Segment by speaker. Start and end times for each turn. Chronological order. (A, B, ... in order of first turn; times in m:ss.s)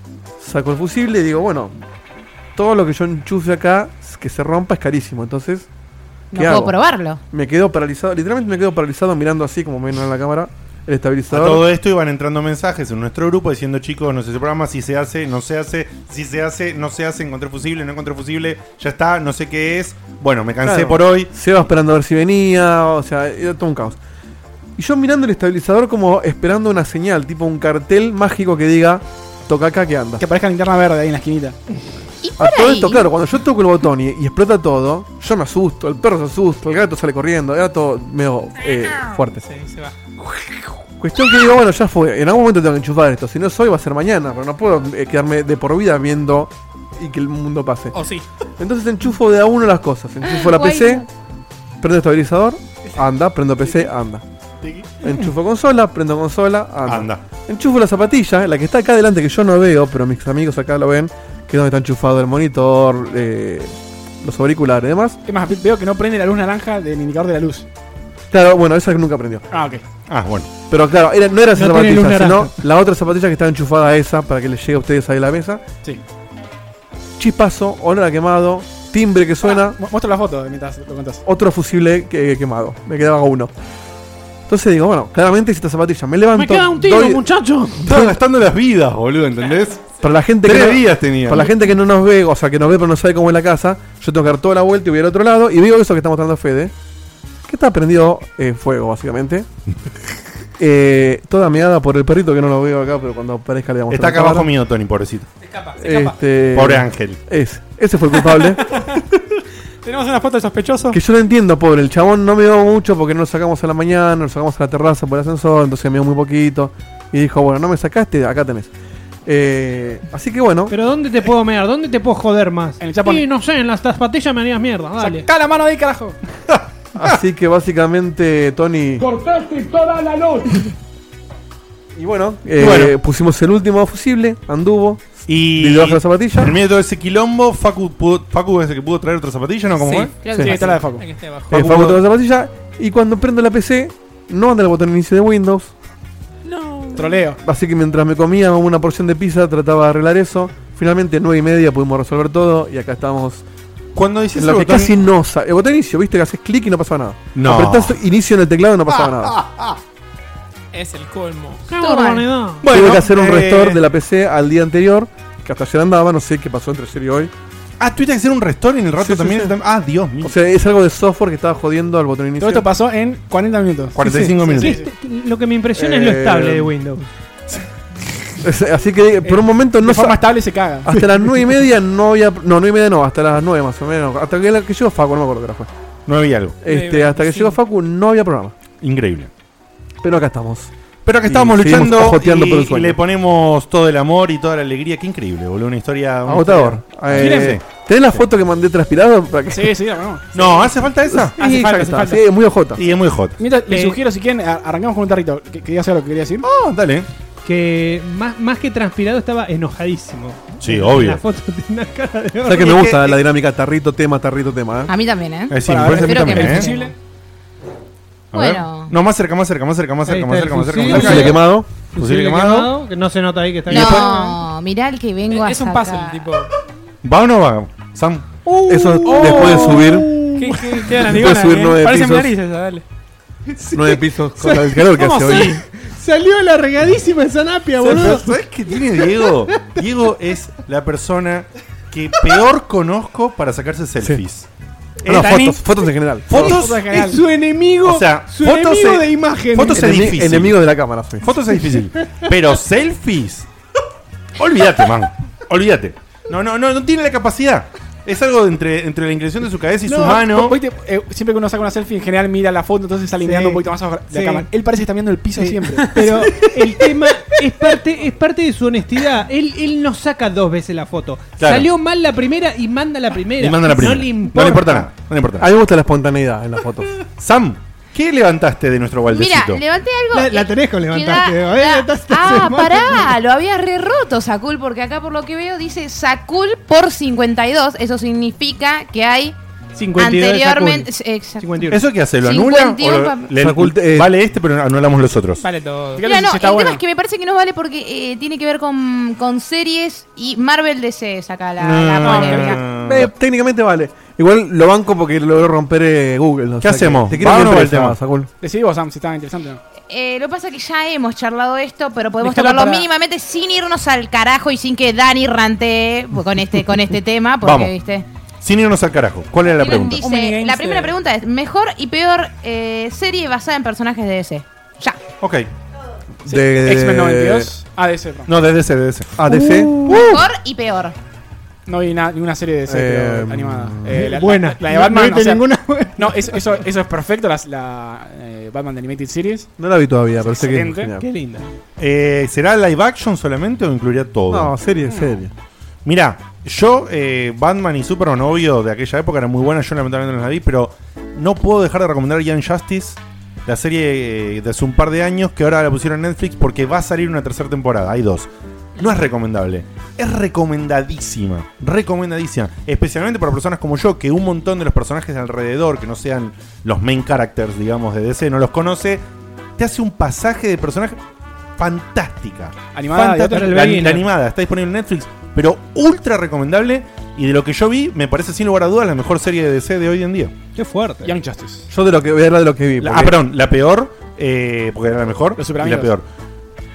0:00.4-0:01.7 A
0:02.5-0:05.7 A
0:06.3-0:07.2 B
0:06.3-0:06.8 A
0:07.3-0:11.7 A
0:11.3-0:21.3 C
0:20.6-0:24.0 A
0:24.8-0:30.2 A
0:30.2-0:31.6 D
0:32.2-0:33.0 B
0:32.4-0:39.4 A
0:39.4-0:39.9 E
0:40.2-0:48.0 A
0:47.9-0:48.2 E
0:48.6-0:51.0 A
0:50.2-0:51.0 B
0:51.8-0:54.2 A
0:54.6-0:55.1 D
0:55.0-1:05.2 A
0:56.9-0:57.2 C
1:05.2-1:07.7 D
1:08.3-1:09.5 A
1:09.5-1:09.8 D
1:10.1-1:10.5 C
1:10.7-1:15.6 A
1:11.5-1:12.5 F
1:17.2-1:19.8 A
1:19.4-1:21.2 D
1:21.2-1:23.5 A
1:24.5-1:27.3 A
1:26.3-1:27.9 F
1:27.8-1:28.1 A
1:27.8-1:29.8 C
1:30.0-1:36.7 A
1:30.4-1:31.5 C
1:37.4-1:39.5 A
1:40.6-1:44.5 A
1:43.9-1:45.3 C
1:45.4-1:46.2 E
1:45.8-1:48.9 A
1:46.5-1:47.2 C
1:48.3-1:49.0 E
1:49.8-1:51.0 E
1:50.9-1:58.7 A
1:59.2-2:00.8 A
2:00.7-2:05.3 F
2:02.8-2:03.2 D
2:05.0-2:06.2 D
2:06.5-2:07.1 C
2:07.0-2:09.2 A
2:11.9-2:16.6 A
2:12.6-2:12.9 C
2:15.3-2:20.1 C
2:19.9-2:21.6 E
2:20.2-2:20.8 B
2:20.4-2:20.6 A
2:20.4-2:21.0 D
2:21.5-2:25.7 A
2:21.5-2:22.0 C
2:26.4-2:27.3 E
2:26.9-2:27.4 D
2:27.4-2:33.4 A
2:33.9-2:34.9 C
2:34.3-2:39.4 A
2:37.3-2:38.0 C
2:38.9-2:39.8 C
2:40.7-2:41.7 E
2:41.7-2:42.6 F
2:41.8-2:42.3 B
2:42.6-2:43.8 C
2:42.7-2:47.3 A
2:47.8-2:50.3 C
2:49.0-2:49.5 A
2:50.2-2:52.6 A
2:52.4-2:54.9 D
2:53.9-2:54.8 C
2:54.6-2:57.0 F
2:55.8-2:56.7 A
2:58.4-3:00.2 A
2:59.2-3:00.9 D
3:00.8-3:05.7 A
3:06.1-3:06.6 C
3:06.6-3:08.5 A
3:06.7-3:07.5 E
3:08.8-3:09.3 C
3:10.0-3:10.7 A
3:11.0-3:17.6 C
3:11.2-3:13.0 A
3:16.2-3:19.8 A
3:17.1-3:17.6 D
3:19.5-3:20.7 D
3:20.3-3:21.4 C
3:21.1-3:22.8 A
3:22.8-3:23.4 C
3:23.4-3:26.4 D
3:26.4-3:27.1 C
3:27.4-3:32.9 F
3:30.6-3:31.2 C
3:32.4-3:34.9 A
3:32.7-3:33.1 C
3:34.9-3:36.9 B
3:35.5-3:36.7 C
3:35.6-3:36.9 D
3:38.3-3:41.4 C
3:38.3-3:38.9 B
3:40.0-3:41.4 F
3:40.8-3:41.7 A
3:41.9-3:44.1 F
3:42.0-3:42.7 C
3:43.7-3:44.1 C
3:43.7-3:46.3 B
3:45.3-3:46.5 E
3:47.0-3:48.2 C
3:48.4-3:51.3 F
3:48.7-3:50.1 A
3:49.1-3:49.7 E
3:50.3-3:52.8 E
3:50.9-3:52.3 A
3:53.6-3:59.8 F
3:53.7-3:55.6 A
3:55.0-3:55.6 E
3:57.8-4:04.5 C
4:05.0-4:05.6 C
4:05.0-4:06.6 A
4:06.3-4:06.8 C
4:06.4-4:07.2 D
4:06.4-4:10.1 F
4:07.8-4:10.6 C
4:09.7-4:11.3 A
4:11.2-4:13.5 C
4:14.4-4:20.6 C
4:19.9-4:20.2 F
4:20.0-4:26.0 D
4:23.2-4:23.6 F
4:24.1-4:24.4 F
4:25.4-4:34.9 F
4:31.4-4:31.7 C
4:33.4-4:35.5 C
4:35.4-4:37.0 A
4:37.2-4:39.6 C
4:39.1-4:49.4 B
4:40.1-4:43.1 F
4:49.8-4:51.8 F
4:50.0-4:53.3 B
4:51.7-4:55.4 C
4:53.4-4:54.1 A
4:55.4-4:56.0 E
4:55.9-4:56.8 D
4:56.0-5:02.6 B
5:01.6-5:03.1 C
5:02.7-5:08.3 A
5:06.6-5:08.0 C
5:08.4-5:09.6 D
5:09.9-5:18.0 B
5:12.2-5:12.9 E
5:17.4-5:17.7 C
5:18.4-5:20.0 C
5:19.5-5:25.0 B
5:19.9-5:20.9 E
5:25.2-5:25.5 C
5:26.2-5:27.5 A
5:26.2-5:28.3 D
5:28.3-5:29.1 C
5:29.2-5:30.2 A
5:29.3-5:30.2 F
5:29.9-5:31.0 B
5:31.7-5:35.4 D
5:32.7-5:34.1 A
5:33.9-5:36.5 F
5:36.0-5:39.5 D
5:39.6-5:41.1 A
5:40.3-5:40.9 D
5:41.0-5:41.5 F
5:41.8-5:44.6 C
5:44.3-5:45.3 A
5:44.9-5:45.2 D
5:45.8-6:09.0 C
6:09.6-6:11.0 C
6:11.6-6:20.3 C
6:12.7-6:13.5 D
6:13.3-6:14.1 F
6:20.5-6:21.2 F
6:21.0-6:21.7 D
6:21.7-6:23.2 A
6:22.8-6:26.0 C
6:25.4-6:25.9 D